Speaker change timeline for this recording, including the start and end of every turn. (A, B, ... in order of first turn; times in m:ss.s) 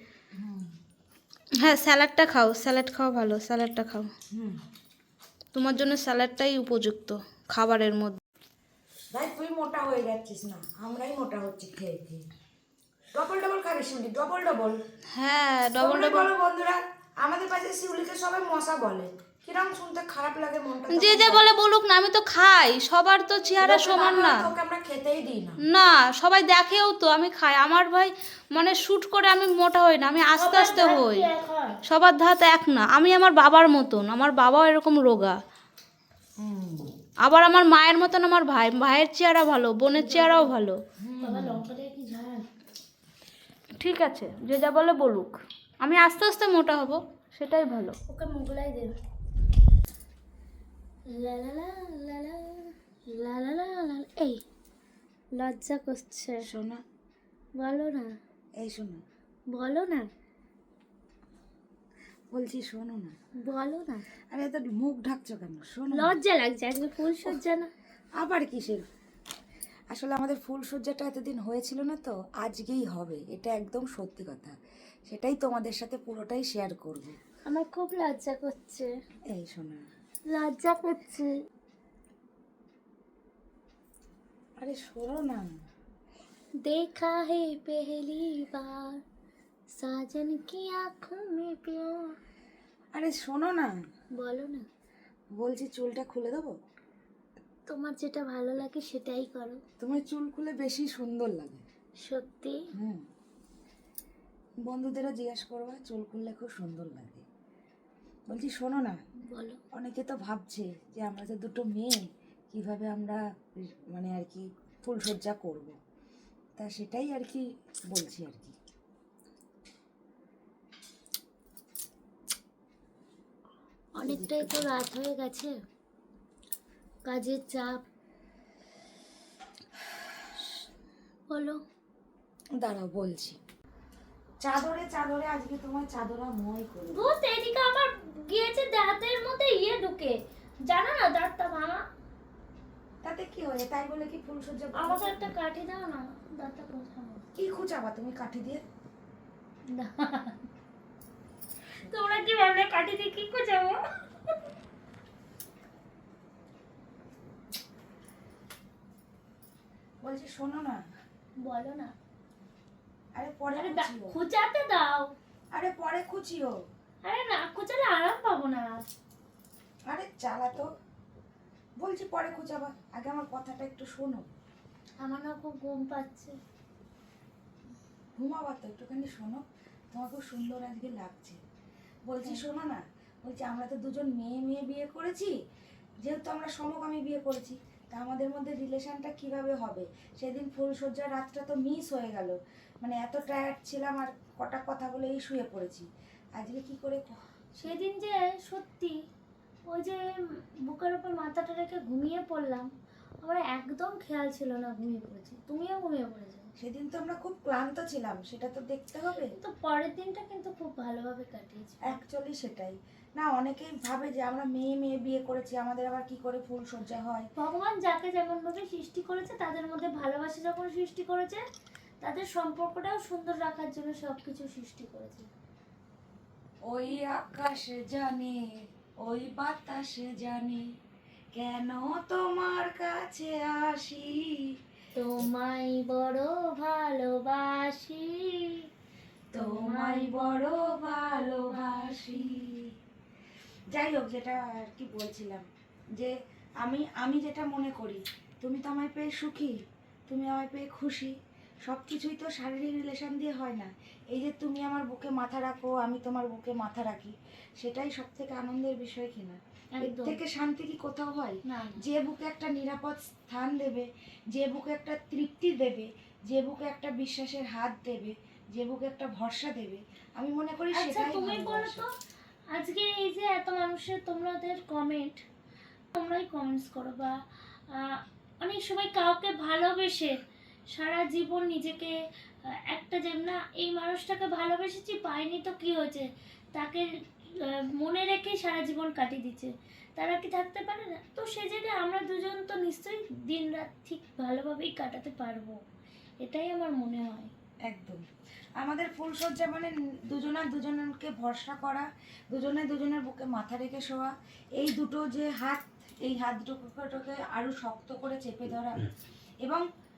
0:00.3-0:00.7 A
0:01.6-0:04.1 B
0:04.3-0:04.6 A
0:05.5-0:08.2 B
0:09.1-0:12.2 A
0:13.1-0:14.8 A
0:15.2-0:16.3 B
0:15.8-0:21.4 A
0:20.9-0:24.5 B
0:23.6-0:25.6 A
0:25.7-0:31.3 B
0:30.4-0:31.8 C
0:31.8-0:35.4 B
0:36.4-0:36.9 A
0:37.2-0:40.8 B
0:39.9-0:40.5 C
0:41.0-0:41.6 A
0:41.2-0:42.4 C
0:43.8-0:48.0 B
0:48.1-0:48.9 C
0:51.1-0:54.4 C
0:55.3-0:56.4 C
0:56.4-0:56.8 A
0:57.6-0:58.2 C
0:58.6-0:59.0 A
0:59.5-1:00.1 C
1:02.3-1:03.2 A
1:03.4-1:04.1 C
1:04.3-1:06.1 A
1:05.9-1:07.7 C
1:08.2-1:08.8 A
1:09.9-1:14.6 A
1:15.1-1:17.2 A
1:17.5-1:18.9 C
1:19.3-1:19.8 A
1:20.3-1:21.3 C
1:24.6-1:25.5 A
1:26.6-1:29.0 C
1:29.8-1:32.1 C
1:32.9-1:33.7 A
1:34.2-1:34.7 C
1:35.3-1:36.5 A
1:37.7-1:39.6 C
1:39.8-1:41.6 A
1:42.0-1:42.6 C
1:42.7-1:43.0 A
1:44.6-1:47.2 A
1:48.3-1:49.0 A
1:49.3-1:49.6 C
1:49.7-1:55.7 A
1:56.6-1:58.5 A
2:04.0-2:05.5 C
2:04.0-2:04.8 A
2:07.1-2:07.8 C
2:11.3-2:11.6 C
2:12.6-2:13.4 A
2:14.4-2:17.1 A
2:16.9-2:21.8 C
2:23.0-2:25.3 A
2:24.8-2:27.2 C
2:27.3-2:28.6 A
2:29.7-2:30.5 C
2:31.9-2:33.8 C
2:40.0-2:40.8 A
2:41.4-2:41.9 C
2:43.2-2:44.2 A
2:43.6-2:45.1 C
2:45.5-2:46.6 A
2:47.0-2:48.8 C
2:49.9-2:50.7 A
2:51.8-2:54.3 A
2:55.0-2:56.4 C
2:58.2-3:01.4 A
3:02.1-3:05.3 A
3:06.0-3:15.8 A
3:16.4-3:17.1 A
3:17.6-3:19.0 C
3:19.7-3:22.7 C
3:23.2-3:26.5 C
3:26.6-3:29.3 A
3:29.3-3:32.0 C
3:31.8-3:37.3 A
3:37.4-3:41.4 C
3:42.0-3:45.3 C
3:46.7-3:48.5 A
3:49.0-3:50.6 A
3:51.3-3:54.5 A
3:54.9-3:58.6 C
3:59.3-4:02.7 A
3:59.3-4:00.5 C
4:03.7-4:31.8 A
4:19.7-4:20.2 C
4:21.4-4:21.8 C
4:30.7-4:31.9 C
4:32.5-4:35.2 C
4:35.9-4:37.2 C
4:37.7-4:40.2 C
4:40.7-4:55.6 C
4:56.2-4:57.3 C
4:57.6-4:58.0 A
4:58.6-5:08.8 A